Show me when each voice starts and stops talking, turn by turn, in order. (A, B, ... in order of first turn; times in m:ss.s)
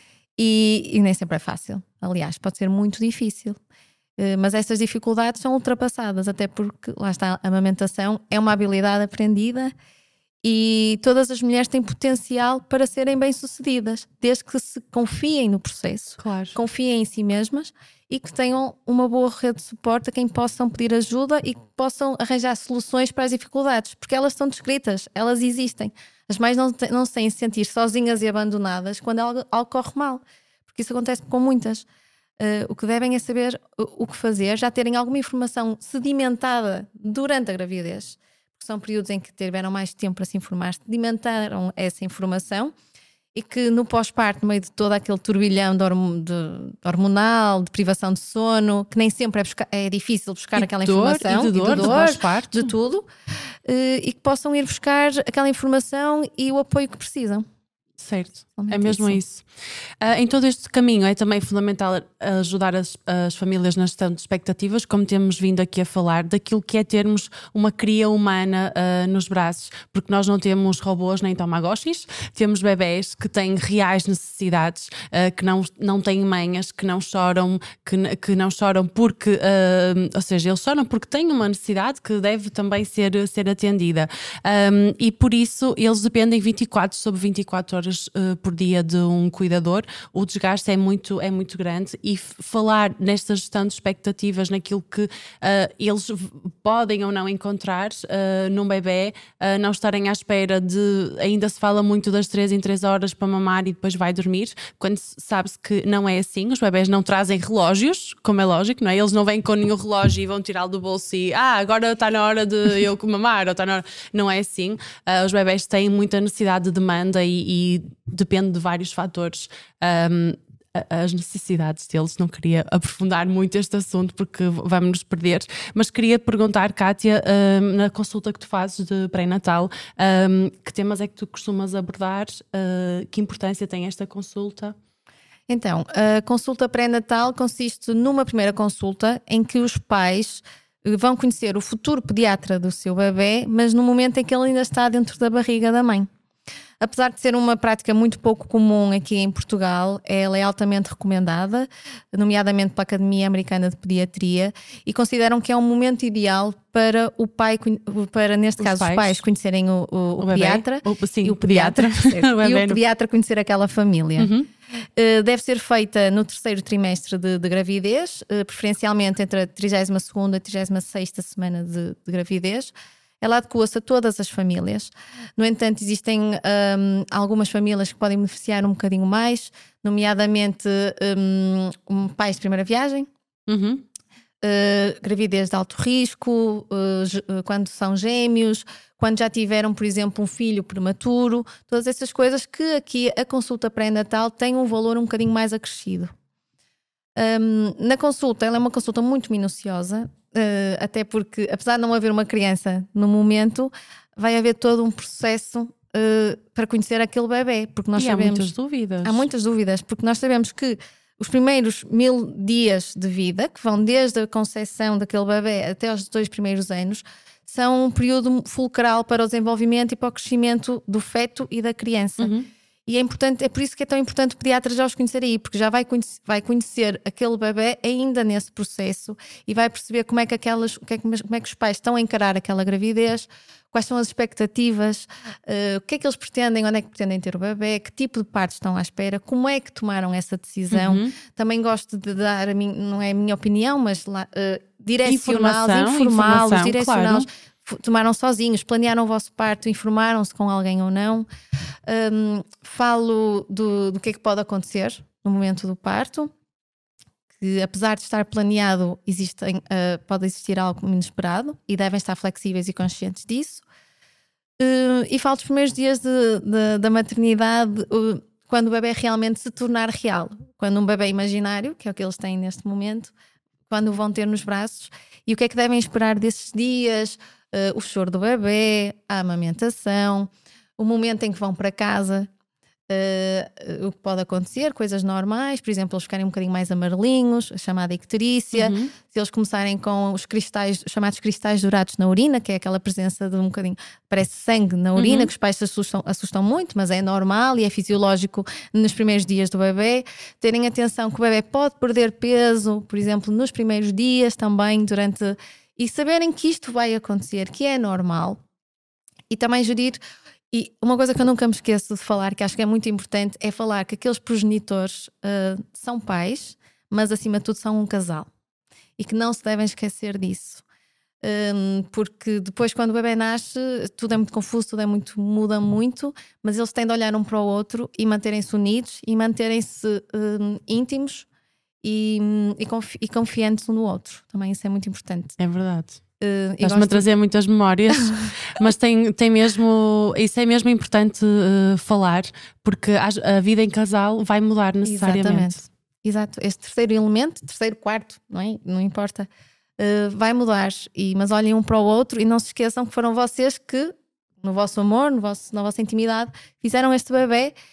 0:00.4-0:03.6 A
0:04.2-0:09.7 A
0:10.4-0:31.9 A
0:16.2-0:16.6 B
0:32.4-0:42.7 A
0:43.4-0:53.1 A
0:50.6-0:52.7 B
0:53.6-0:57.5 A
0:58.0-0:59.4 B
0:58.6-0:59.2 A
1:00.0-2:14.8 B
2:15.5-2:26.1 A
2:26.8-2:44.3 A
2:38.6-2:39.2 B
2:40.2-2:42.8 B
2:44.2-2:44.5 B
2:45.0-3:03.1 A
3:03.5-3:03.8 B
3:04.4-3:16.1 A
3:17.2-3:42.3 A
3:28.0-3:29.2 B
3:42.2-3:42.5 B
3:42.9-4:11.3 A
4:00.7-4:01.2 B
4:05.0-4:07.3 B
4:11.9-4:16.3 A
4:17.4-4:23.6 A
4:24.6-4:33.1 A
4:33.7-4:42.3 A
4:42.9-5:08.4 A
4:48.5-4:48.9 B
4:55.0-4:55.3 B
5:09.3-5:10.0 A
5:10.5-5:18.3 A
5:19.0-5:20.6 A
5:21.2-5:31.3 A
5:31.8-5:35.4 A
5:35.4-5:36.0 B
5:36.2-5:37.1 A
5:36.6-5:45.6 B
5:44.8-5:57.5 A